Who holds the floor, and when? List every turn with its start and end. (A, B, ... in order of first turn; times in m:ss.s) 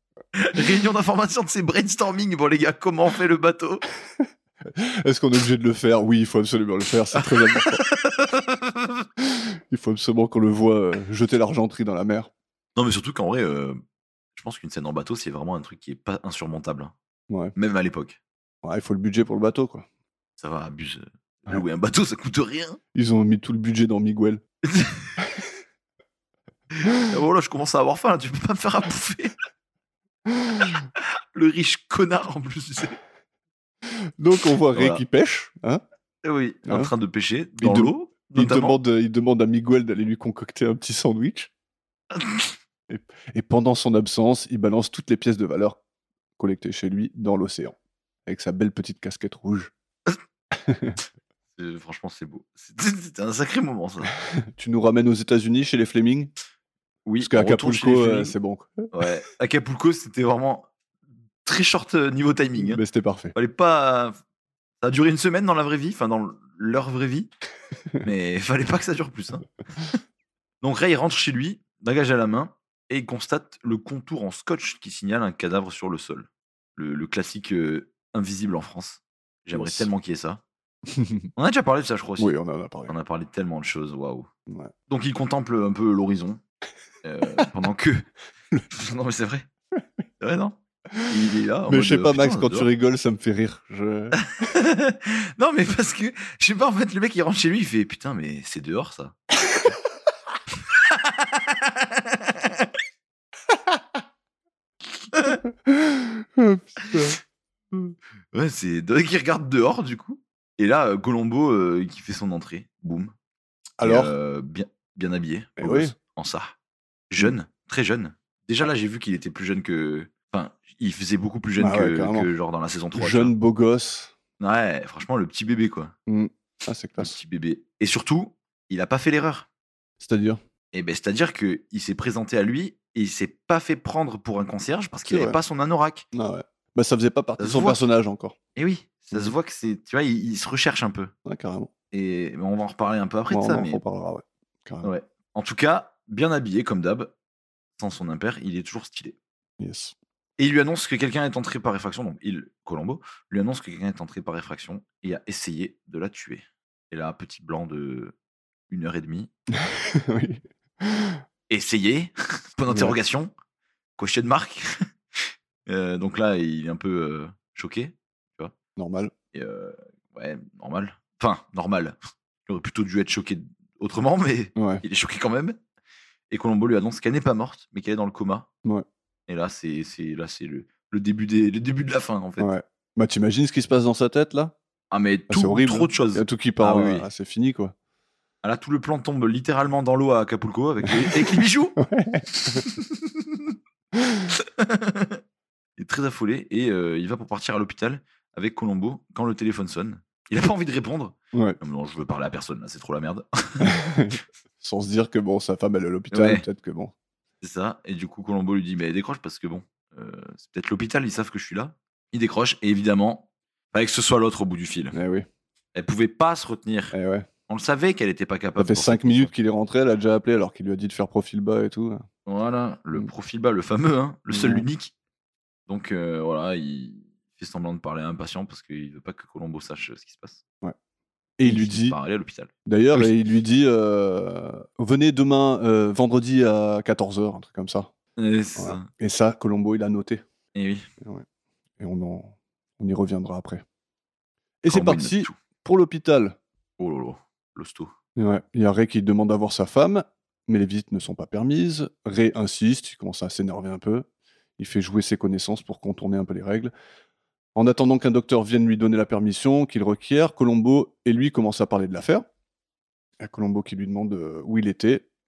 0:00.4-0:03.8 A
0:04.7-0:07.8 B
0:07.2-0:09.1 A
0:09.2-0:12.3 B
0:12.8-0:13.8 A
0:14.4-0:16.9 A
0:17.3-0:17.6 B
0:17.6-0:18.2 A
0:18.6-0:19.9 B
0:20.4-0:22.8 A
0:22.9-0:24.4 B
0:24.6-0:25.2 A
0:26.8-0:29.4 A
0:30.3-0:30.8 B
0:31.0-0:33.0 A
0:33.9-0:35.8 B
0:34.7-0:35.0 A
0:36.2-0:38.8 A
0:37.6-0:41.5 B
0:42.1-0:42.5 A
0:42.9-0:45.8 B
0:46.4-0:49.7 B
0:50.5-0:51.0 B
0:51.6-0:54.1 A
0:54.4-0:56.3 B
0:57.1-0:58.4 A
0:57.2-0:58.9 B
0:58.9-1:00.7 A
1:01.4-1:02.8 A
1:02.6-1:03.3 B
1:03.3-1:04.2 A
1:04.8-1:07.3 A
1:08.0-1:10.0 A
1:10.6-1:20.4 A
1:19.5-1:19.9 B
1:20.9-1:21.3 B
1:21.4-1:22.3 A
1:22.2-1:22.9 B
1:22.9-1:24.3 A
1:24.9-1:26.4 A
1:27.0-1:28.1 A
1:28.7-1:29.5 A
1:30.2-1:32.7 A
1:31.7-1:34.2 B
1:34.2-1:39.2 A
1:40.6-1:42.7 A
1:45.1-1:45.4 A
1:45.7-1:47.2 B
1:46.8-1:47.2 A
1:47.7-1:53.1 A
1:53.8-1:54.1 B
1:53.8-1:56.6 A
1:55.6-1:55.9 B
1:57.1-2:03.3 A
2:01.6-2:02.3 B
2:03.0-2:04.1 B
2:04.4-2:05.9 A
2:06.1-2:07.2 B
2:07.0-2:09.5 A
2:10.0-2:10.4 B
2:10.7-2:16.1 A
2:15.1-2:15.4 B
2:16.1-2:18.4 B
2:17.4-2:17.8 A
2:18.6-2:21.1 A
2:21.2-2:21.7 B
2:21.9-2:23.8 A
2:23.3-2:24.9 B
2:24.8-2:27.1 A
2:27.8-2:29.2 A
2:29.6-2:30.0 B
2:30.4-2:38.1 A
2:38.7-2:39.3 A
2:39.5-2:41.2 B
2:41.5-2:43.3 A
2:42.7-2:43.0 B
2:44.0-2:48.5 A
2:48.8-2:49.1 B
2:49.3-2:55.6 A
2:54.6-2:54.8 B
2:56.3-2:58.5 A
2:59.3-3:02.5 A
3:02.4-3:04.6 B
3:04.9-3:07.1 A
3:05.3-3:07.7 B
3:08.4-3:11.8 A
3:10.9-3:12.6 B
3:12.3-3:13.5 A
3:13.9-3:14.3 B
3:14.3-3:15.2 A
3:15.8-3:23.8 A
3:21.3-3:21.6 B
3:23.6-3:26.9 B
3:26.1-3:26.4 A
3:27.4-3:35.0 A
3:34.9-3:35.3 B
3:35.8-3:37.0 A
3:36.9-3:37.3 B
3:37.5-3:39.3 A
3:38.6-3:42.0 B
3:42.3-3:44.9 A
3:44.3-3:44.7 B
3:45.7-3:50.4 A
3:51.4-3:52.0 B
3:51.4-3:53.1 A
3:52.7-3:57.9 B
3:58.2-3:58.9 A
3:58.6-4:00.2 B
4:00.5-4:00.9 A
4:01.8-4:03.6 B
4:04.6-4:06.4 B
4:04.7-4:05.4 A
4:06.8-4:07.9 A
4:08.2-4:14.1 B
4:14.6-4:16.7 B
4:17.6-4:22.2 B
4:23.2-4:25.1 B